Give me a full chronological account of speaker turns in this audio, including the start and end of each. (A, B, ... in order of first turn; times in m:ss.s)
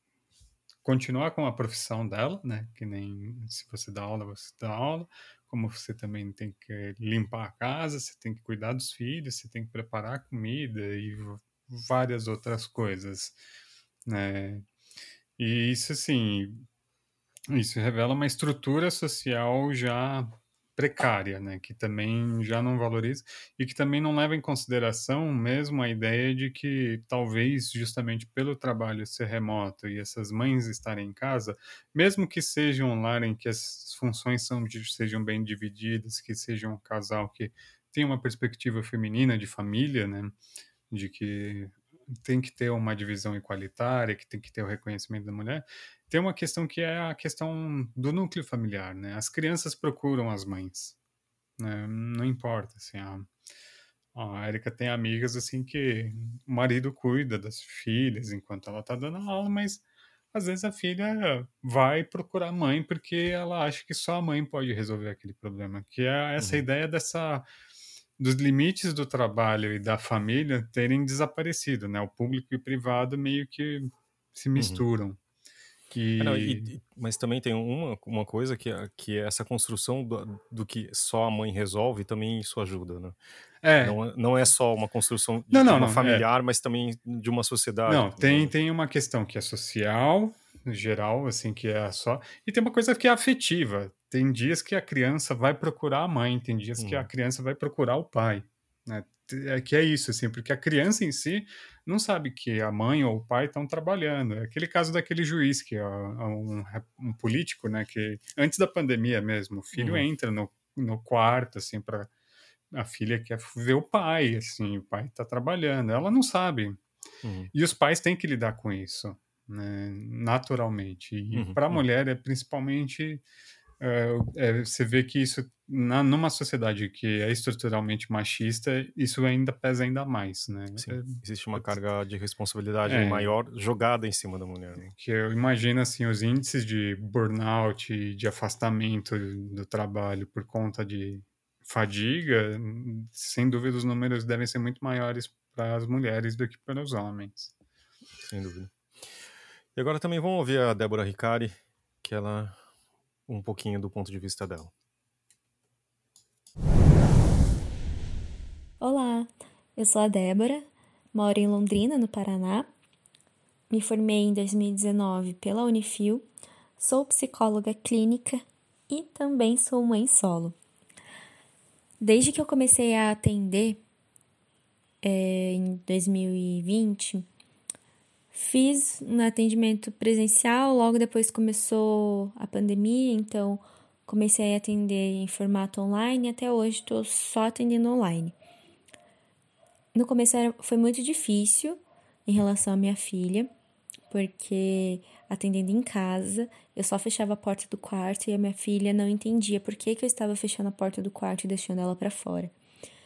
0:00.8-0:13.4 A
0:14.0-0:14.6 A
0:15.4-0:16.6 A
0:17.5-0:40.4 A
0:40.9-0:51.0 A
0:51.6-0:53.3 A
0:54.1-1:07.4 A
1:08.2-1:15.2 A
1:14.6-1:14.8 B
1:15.9-1:16.7 A
1:16.2-1:23.2 B
1:23.6-1:24.0 A
1:23.8-1:28.5 B
1:25.5-1:26.2 A
1:27.9-1:52.1 A
1:36.8-1:37.1 B
1:49.7-1:50.0 B
1:52.7-1:56.8 A
1:57.2-1:57.5 B
1:57.5-2:03.2 A
2:01.3-2:01.8 B
2:03.8-2:11.8 A
2:10.8-2:14.9 B
2:12.9-2:13.3 A
2:14.9-2:27.5 A
2:28.2-2:28.7 B
2:29.7-2:32.6 B
2:33.3-2:34.7 B
2:38.8-2:42.7 C
2:43.7-2:46.2 C
2:46.8-2:50.5 C
2:52.0-2:53.8 C
2:55.0-2:57.2 C
2:58.3-3:08.3 C
3:09.9-3:13.5 C
3:14.1-3:22.5 C